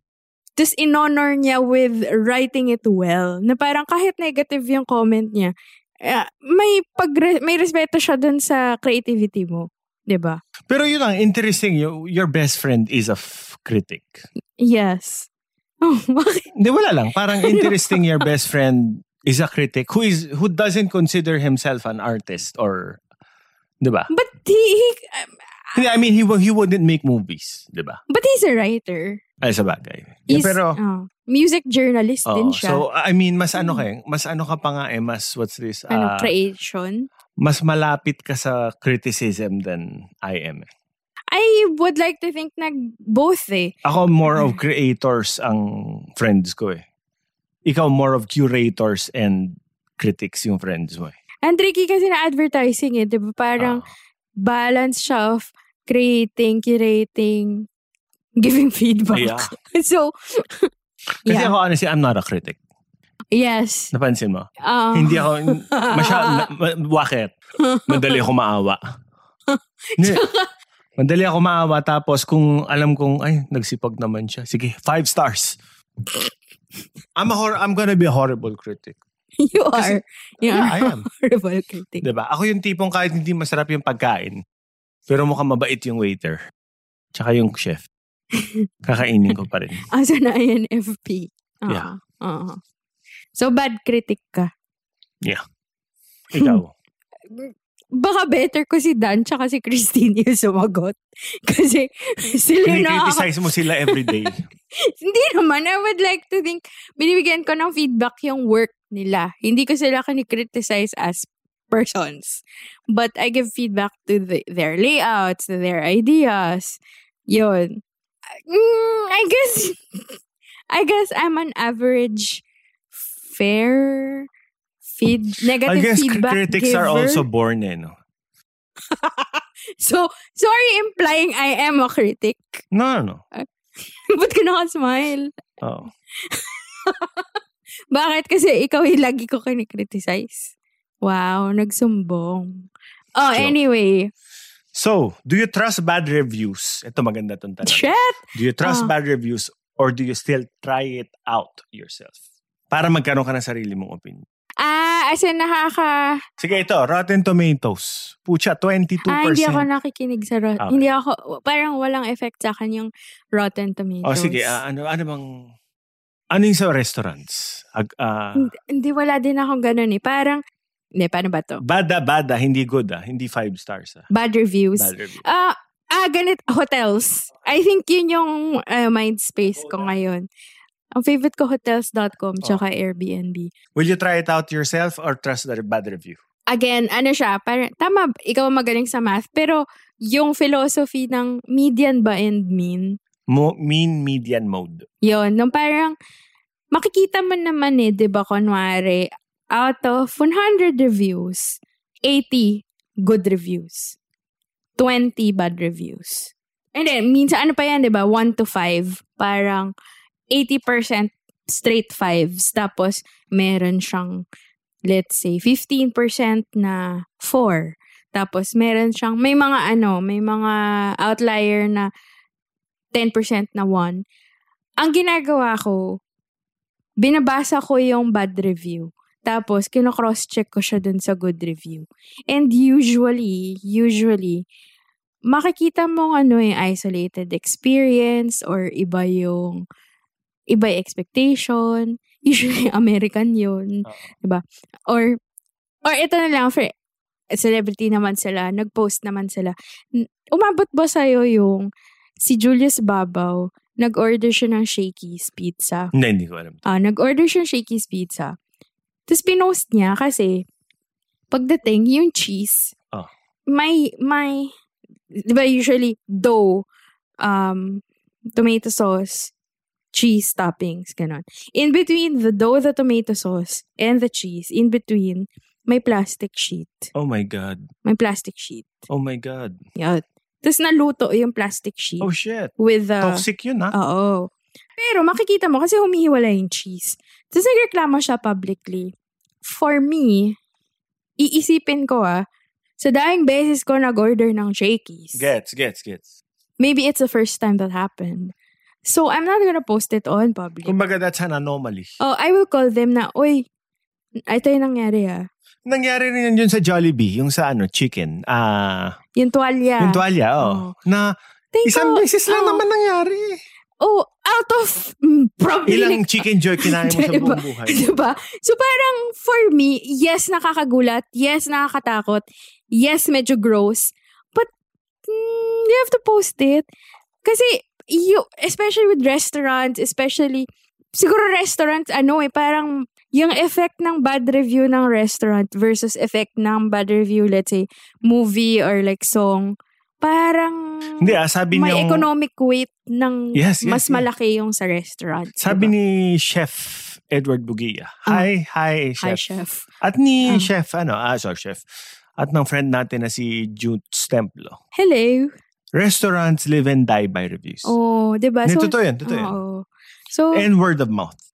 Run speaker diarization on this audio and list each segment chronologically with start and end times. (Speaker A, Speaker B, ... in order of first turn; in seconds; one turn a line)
Speaker A: 0.6-5.5
Speaker A: 6.0-10.4
Speaker B: 10.7-14.2
Speaker A: 14.6-15.3
Speaker A: 15.8-16.4
Speaker B: 16.5-23.0
Speaker A: 17.4-18.2
Speaker B: 23.8-24.1
Speaker A: 24.1-25.8
Speaker B: 25.7-28.0
Speaker A: 28.1-29.2
Speaker B: 29.4-30.8
Speaker A: 30.3-32.8
Speaker B: 32.2-36.3
Speaker A: 33.5-33.8
Speaker A: 35.9-37.1
Speaker B: 37.4-40.7
Speaker A: 41.3-43.7
Speaker B: 43.8-46.8
Speaker A: 44.3-44.6
Speaker B: 47.6-51.1
Speaker A: 51.4-53.8
Speaker B: 53.6-53.9
Speaker A: 54.4-57.6
Speaker A: 58.4-60.7
Speaker B: 59.1-59.5
Speaker A: 61.2-61.5
Speaker B: 61.2-62.6
Speaker A: 63.3-63.9
Speaker B: 63.9-67.3
Speaker A: 64.6-66.5
Speaker A: 67.6-68.2
Speaker B: 67.9-68.8
Speaker A: 69.5-70.5
Speaker B: 70.0-70.2
Speaker B: 71.0-75.6
Speaker B: 77.2-79.0
Speaker A: 79.4-82.0
Speaker B: 79.7-81.0
Speaker B: 82.0-84.4
Speaker B: 85.1-86.4
Speaker B: 87.1-87.8
Speaker A: 88.3-88.7
Speaker B: 88.8-89.8
Speaker A: 89.9-92.6
Speaker A: 93.3-94.5
Speaker B: 96.3-96.7
Speaker A: 97.3-103.3
Speaker B: 102.6-104.4
Speaker A: 103.8-117.8
Speaker A: 118.5-120.2
Speaker A: 120.7-122.4
Speaker A: 123.2-124.2
Speaker A: 124.9-127.2
Speaker B: 125.6-127.9
Speaker A: 128.9-132.6
Speaker B: 132.7-133.2
Speaker A: 134.1-135.3
Speaker B: 135.6-135.9
Speaker A: 136.3-137.2
Speaker A: 137.9-144.1
Speaker B: 143.3-143.6
Speaker B: 144.7-152.2
Speaker A: 147.6-148.9
Speaker B: 152.7-154.2
Speaker A: 154.6-156.2
Speaker B: 156.4-159.7
Speaker A: 159.1-164.6
Speaker B: 160.6-160.8
Speaker B: 164.0-165.3
Speaker B: 166.3-168.5
Speaker A: 168.4-170.4
Speaker A: 171.0-171.6
Speaker B: 171.6-174.1
Speaker A: 174.1-180.2
Speaker B: 174.8-175.2
Speaker A: 180.9-183.5
Speaker B: 183.7-186.2
Speaker A: 186.5-193.0
Speaker B: 193.3-194.8
Speaker A: 195.0-195.9
Speaker A: 196.7-203.9
Speaker A: 204.8-209.7
Speaker A: 210.3-214.2
Speaker A: 214.9-221.9
Speaker A: 222.9-224.0
Speaker A: 224.8-225.8
Speaker A: 227.0-234.4
Speaker A: 235.3-239.6
Speaker A: 240.5-245.1
Speaker A: 245.8-246.7
Speaker A: 247.3-251.7
Speaker A: 252.2-255.9
Speaker B: 255.9-256.6
Speaker A: 256.6-258.3
Speaker A: 259.1-260.4
Speaker A: 261.3-262.7
Speaker A: 263.5-264.5
Speaker A: 265.2-266.6
Speaker A: 267.2-267.8
Speaker A: 268.3-269.3
Speaker A: 269.9-276.9
Speaker B: 276.9-277.7
Speaker A: 277.8-278.8
Speaker B: 278.9-279.6
Speaker A: 279.8-288.9
Speaker B: 282.0-283.7
Speaker A: 289.4-290.4
Speaker A: 291.2-292.2
Speaker A: 292.8-295.2
Speaker B: 295.1-296.1
Speaker A: 296.6-298.3
Speaker A: 298.8-300.8
Speaker B: 300.6-301.9
Speaker A: 302.0-303.4
Speaker A: 304.3-305.3
Speaker B: 305.6-308.9
Speaker A: 309.1-310.7
Speaker B: 309.8-311.1
Speaker A: 311.5-312.6
Speaker B: 311.6-313.4
Speaker A: 313.8-324.5
Speaker B: 315.7-317.8
Speaker A: 325.1-326.6
Speaker A: 327.2-345.7
Speaker B: 341.0-342.1
Speaker B: 343.3-344.0
Speaker B: 345.4-349.2
Speaker A: 349.0-349.6
Speaker B: 349.8-351.6
Speaker B: 352.2-354.6
Speaker A: 354.7-355.3
Speaker B: 355.7-357.8
Speaker A: 357.6-360.5
Speaker B: 358.4-359.4
Speaker B: 360.3-361.2